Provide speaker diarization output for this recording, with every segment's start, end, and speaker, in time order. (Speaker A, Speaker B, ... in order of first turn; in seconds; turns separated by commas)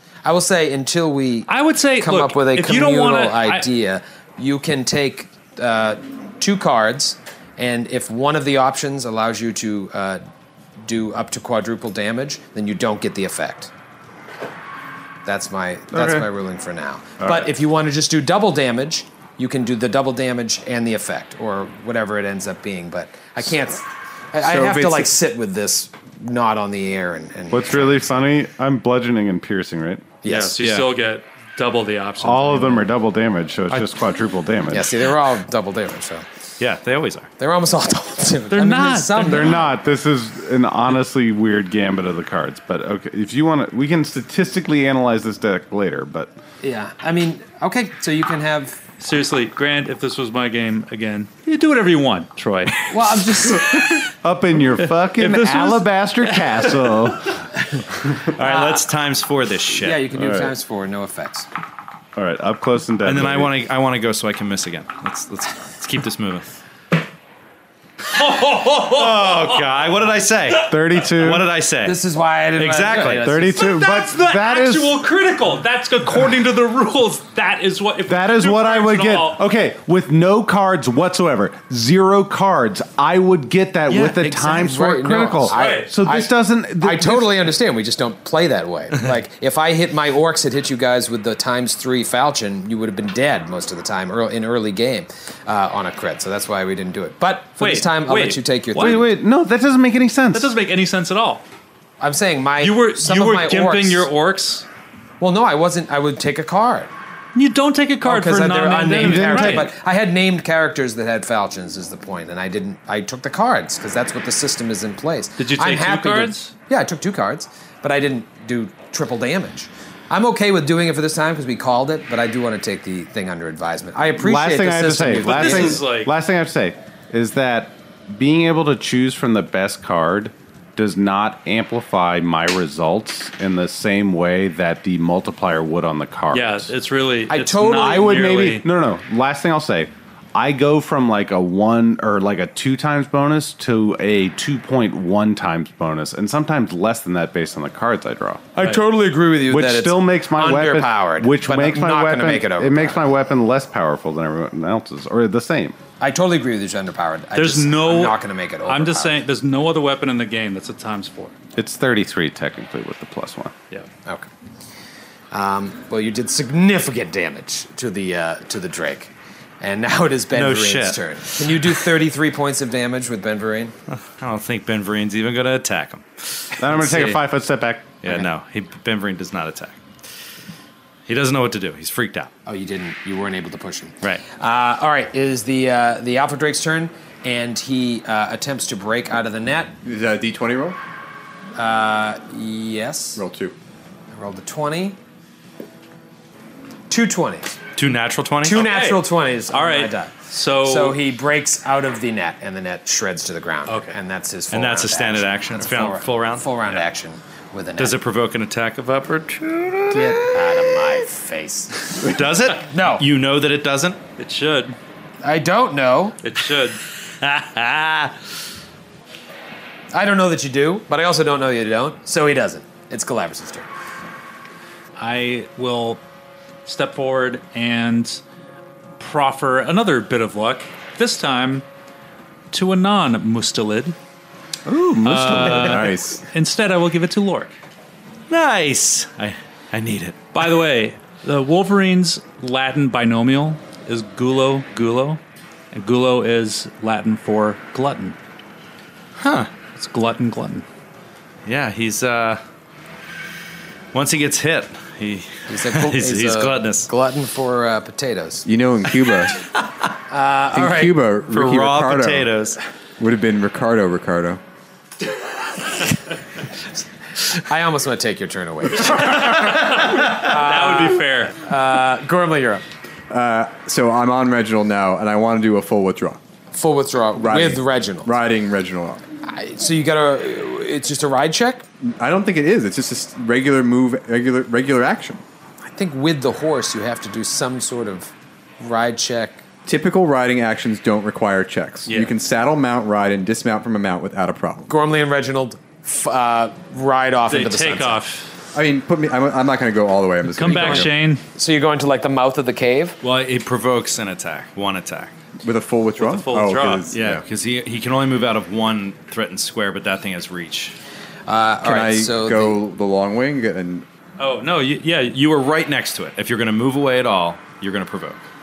Speaker A: 0.2-10.2, Speaker B: 1.5-3.7, Speaker A: 10.8-13.7, Speaker A: 15.2-28.2, Speaker C: 15.9-16.3, Speaker C: 17.2-17.5, Speaker D: 24.4-25.1, Speaker C: 27.5-30.2, Speaker A: 30.2-30.6, Speaker B: 30.2-33.0, Speaker E: 30.6-30.9, Speaker C: 32.2-35.0, Speaker A: 34.7-36.3, Speaker E: 36.6-37.3, Speaker A: 37.4-39.6, Speaker B: 38.5-39.6, Speaker C: 39.1-46.3, Speaker A: 46.6-48.8, Speaker B: 49.0-53.3, Speaker A: 52.9-54.0, Speaker C: 53.7-57.5, Speaker B: 55.1-57.1, Speaker A: 57.5-57.9, Speaker E: 58.3-60.0, Speaker A: 58.4-58.8, Speaker A: 59.7-61.5, Speaker C: 60.1-60.5, Speaker C: 62.1-63.5, Speaker E: 63.0-66.5, Speaker B: 68.1-69.7, Speaker E: 68.2-72.0, Speaker C: 70.7-71.5, Speaker A: 71.8-73.7, Speaker E: 72.5-73.3, Speaker C: 73.2-75.0, Speaker B: 73.5-79.4, Speaker C: 78.1-87.5, Speaker E: 83.9-84.4, Speaker A: 84.3-99.1, Speaker B: 85.5-85.9, Speaker B: 97.6-99.1, Speaker C: 98.7-100.5, Speaker B: 100.3-101.4, Speaker A: 102.0-104.1, Speaker B: 102.6-104.7, Speaker A: 105.2-106.9, Speaker B: 107.3-109.7, Speaker A: 108.0-125.9, Speaker C: 108.9-109.7, Speaker B: 115.4-116.5, Speaker C: 124.2-136.7, Speaker B: 125.1-126.1, Speaker B: 136.3-138.7, Speaker A: 137.3-138.4, Speaker C: 137.8-148.5, Speaker A: 148.6-153.1, Speaker C: 149.5-155.8, Speaker A: 156.0-159.2, Speaker B: 157.3-161.3, Speaker C: 161.6-163.5, Speaker A: 165.3-173.8, Speaker E: 170.3-171.8, Speaker E: 173.9-177.2, Speaker C: 176.6-178.0, Speaker A: 176.8-177.2, Speaker E: 178.0-179.8, Speaker E: 181.1-182.3, Speaker A: 182.5-189.7, Speaker D: 189.8-190.8, Speaker A: 191.6-193.2, Speaker D: 193.2-193.6, Speaker A: 194.1-195.0, Speaker A: 196.9-197.6, Speaker E: 197.8-198.7, Speaker A: 198.4-208.0, Speaker B: 198.6-201.0, Speaker B: 203.7-204.0, Speaker E: 204.5-206.8, Speaker E: 207.8-210.6, Speaker A: 209.9-212.2, Speaker E: 211.9-214.0, Speaker A: 212.7-213.1, Speaker B: 214.2-214.8, Speaker A: 215.2-216.2, Speaker B: 216.2-216.8, Speaker E: 217.2-218.1, Speaker A: 219.9-223.7, Speaker B: 225.0-226.0, Speaker B: 226.7-228.2, Speaker B: 229.0-231.7, Speaker B: 232.5-234.0, Speaker C: 234.7-235.9, Speaker B: 235.0-237.5, Speaker D: 235.6-236.2, Speaker E: 238.3-240.5, Speaker B: 240.3-245.2, Speaker B: 245.7-248.2, Speaker E: 249.2-249.5, Speaker B: 249.7-250.7, Speaker E: 251.5-252.4, Speaker E: 253.9-256.9, Speaker A: 255.5-258.5, Speaker D: 258.4-259.4, Speaker A: 260.1-261.0, Speaker D: 260.5-262.3, Speaker E: 261.3-262.6, Speaker D: 263.0-264.4, Speaker A: 267.3-272.6, Speaker B: 268.9-271.4, Speaker D: 273.1-276.2, Speaker A: 276.5-278.1, Speaker D: 277.2-279.0, Speaker A: 279.2-281.7, Speaker D: 281.8-285.2, Speaker A: 285.6-289.4, Speaker D: 289.7-294.7, Speaker B: 291.9-292.1, Speaker A: 294.7-298.0, Speaker B: 297.3-298.3, Speaker D: 298.5-300.9, Speaker B: 300.3-301.2, Speaker A: 300.5-303.0, Speaker E: 303.0-305.2, Speaker D: 305.4-307.2, Speaker B: 306.0-306.9, Speaker E: 306.9-310.8, Speaker A: 311.3-312.6, Speaker D: 311.6-313.9, Speaker B: 314.2-315.2, Speaker E: 315.1-318.2